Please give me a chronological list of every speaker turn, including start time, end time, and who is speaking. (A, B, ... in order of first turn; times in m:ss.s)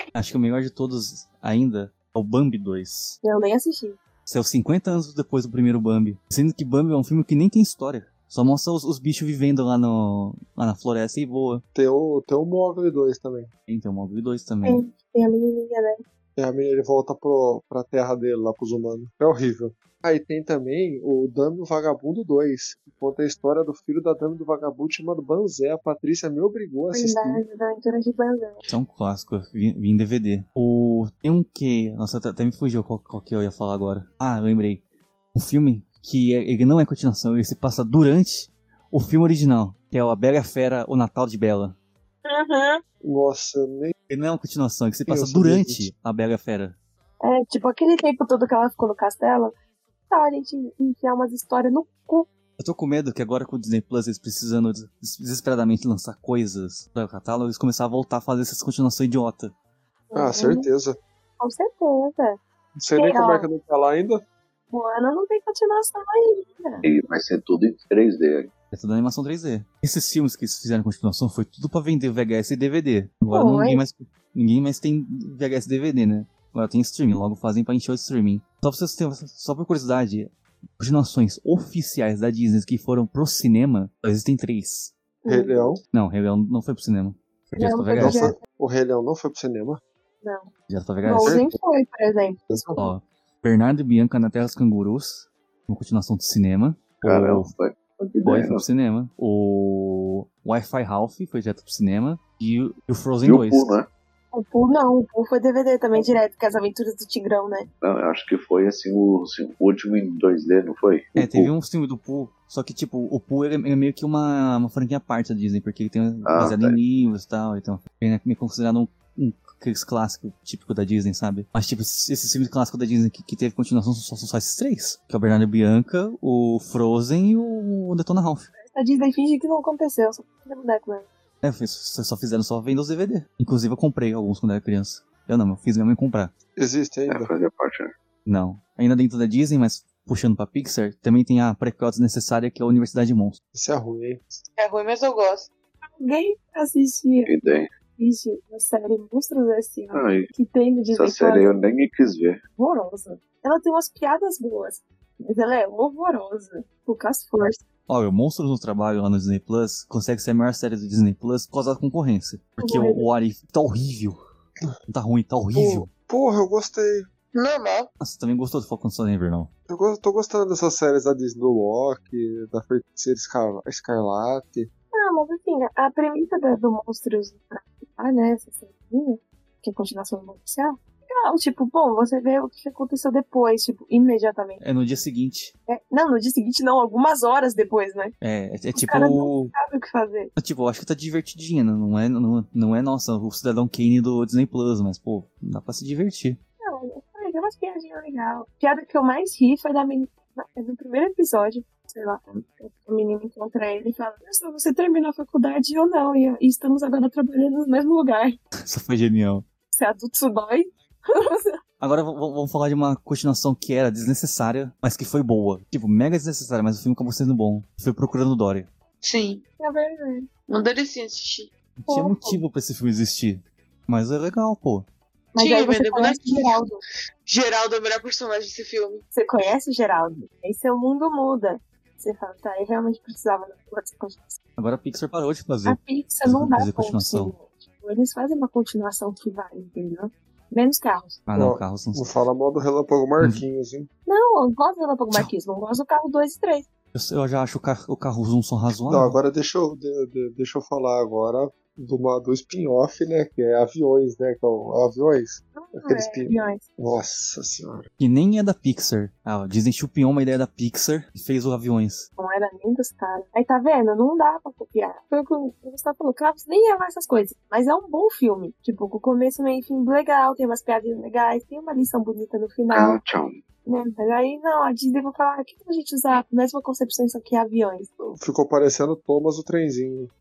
0:00.1-0:03.2 A
0:03.2-0:04.0 B
0:04.2-0:11.6 A
0:11.7-0:13.5 C
0:13.7-0:14.8 A
0:14.6-0:16.0 B
0:16.4-0:27.4 C
0:26.9-0:28.6 B
0:28.7-0:34.8 A
0:35.3-0:41.8 A
0:42.2-0:42.8 B
0:43.0-0:43.9 C
0:44.1-0:46.8 A
0:45.1-0:45.8 C
0:47.2-0:49.5 B
0:50.1-0:52.3 B
0:52.6-0:59.5 A
1:00.1-1:00.7 B
1:00.1-1:01.0 C
1:01.4-1:02.4 B
1:02.8-1:04.2 C
1:02.9-1:03.5 B
1:04.7-1:06.8 B
1:06.8-1:08.5 D
1:08.7-1:24.9 A
1:13.3-1:13.8 B
1:25.2-1:25.7 B
1:25.3-1:25.8 C
1:25.9-1:28.3 A
1:27.6-1:28.4 B
1:28.0-1:29.8 C
1:30.2-1:30.5 B
1:30.7-1:31.4 A
1:31.0-1:32.9 B
1:31.2-1:31.6 C
1:32.5-1:32.8 C
1:32.8-1:37.5 A
1:37.0-1:38.6 D
1:38.2-1:43.7 A
1:43.2-1:43.9 D
1:44.3-1:47.7 B
1:47.8-1:51.5 D
1:51.2-2:08.5 A
1:56.2-1:56.8 D
2:08.6-2:11.1 B
2:11.4-2:16.3 A
2:16.6-2:17.3 C
2:17.1-2:17.9 D
2:18.2-2:23.4 A
2:23.5-2:24.2 C
2:24.6-2:25.5 E
2:26.0-2:27.3 B
2:27.3-2:27.7 D
2:28.0-2:31.5 B
2:29.9-2:30.3 D
2:30.9-2:32.4 D
2:32.6-2:37.6 B
2:37.9-2:44.2 A
2:42.6-2:43.0 B
2:44.9-2:45.9 A
2:45.5-2:47.0 C
2:47.3-2:47.9 E
2:48.0-2:49.5 A
2:49.7-2:54.7 C
2:54.9-3:04.6 B
3:04.6-3:05.5 A
3:05.7-3:08.1 B
3:08.2-3:09.5 A
3:08.7-3:10.3 B
3:10.4-3:16.4 A
3:16.6-3:28.4 B
3:28.6-3:29.4 A
3:29.7-3:31.6 B
3:31.8-3:38.7 A
3:39.0-3:39.4 E
3:39.6-3:40.3 B
3:40.5-3:41.5 E
3:41.8-3:44.9 A
3:41.9-3:42.4 B
3:45.3-3:46.6 E
3:45.4-3:46.8 B
3:47.2-3:49.0 E
3:49.1-3:54.4 B
3:54.6-3:57.3 A
3:55.6-4:01.2 B
4:01.3-4:02.0 A
4:01.3-4:03.9 C
4:04.1-4:06.7 B
4:06.9-4:09.2 A
4:08.9-4:17.8 C
4:15.5-4:16.6 B
4:18.0-4:22.1 A
4:22.2-4:33.0 B
4:32.7-4:33.4 D
4:33.6-4:37.9 B
4:38.0-4:40.1 C